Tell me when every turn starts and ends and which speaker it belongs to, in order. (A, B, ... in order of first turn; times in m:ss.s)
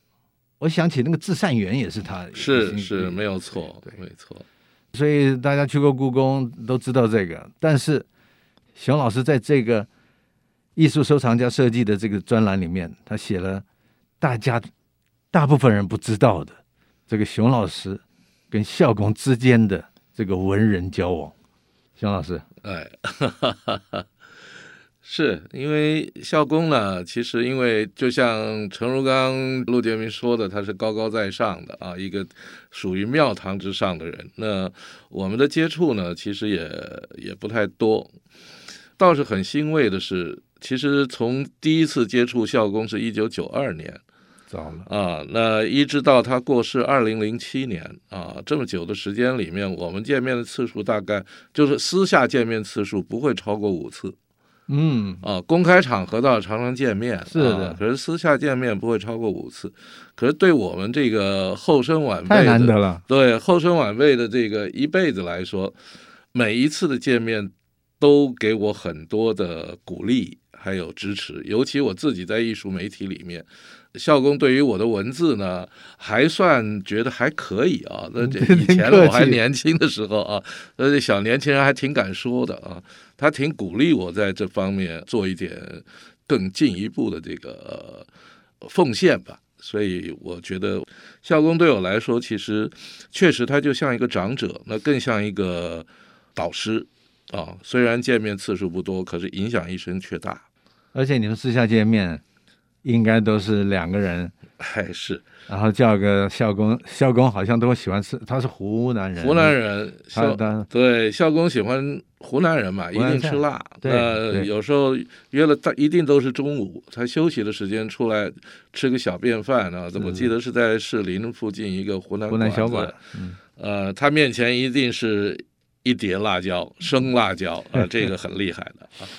0:00.6-0:03.2 A
0:02.3-0:04.4 B
0:04.9-0:08.0 A
0:08.7-0:09.9 A
0:10.8-0:13.6 A
0:14.2-0:14.7 A
0:15.3-0:16.6 A
0:17.1-0:21.3 A
0:22.0-0:22.4 A
0:22.6-0:24.0 B
0:25.0-0:38.1 B
0:39.0-0:44.0 B
0:44.5-0:44.9 A
0:44.8-0:54.2 B
0:54.7-0:55.2 A
0:55.2-1:05.7 B
0:57.3-0:57.8 A
1:02.3-1:03.0 A
1:06.3-1:28.1 B
1:18.2-1:19.4 A
1:28.6-1:40.4 B
1:40.9-1:42.2 A
1:42.8-1:44.3 A
1:44.6-1:45.2 B
1:45.5-1:49.6 A
1:49.2-2:03.0 B
1:50.1-1:50.7 A
1:52.9-1:54.5 A
2:00.0-2:00.3 A
2:02.3-2:03.4 A
2:03.6-2:09.1 B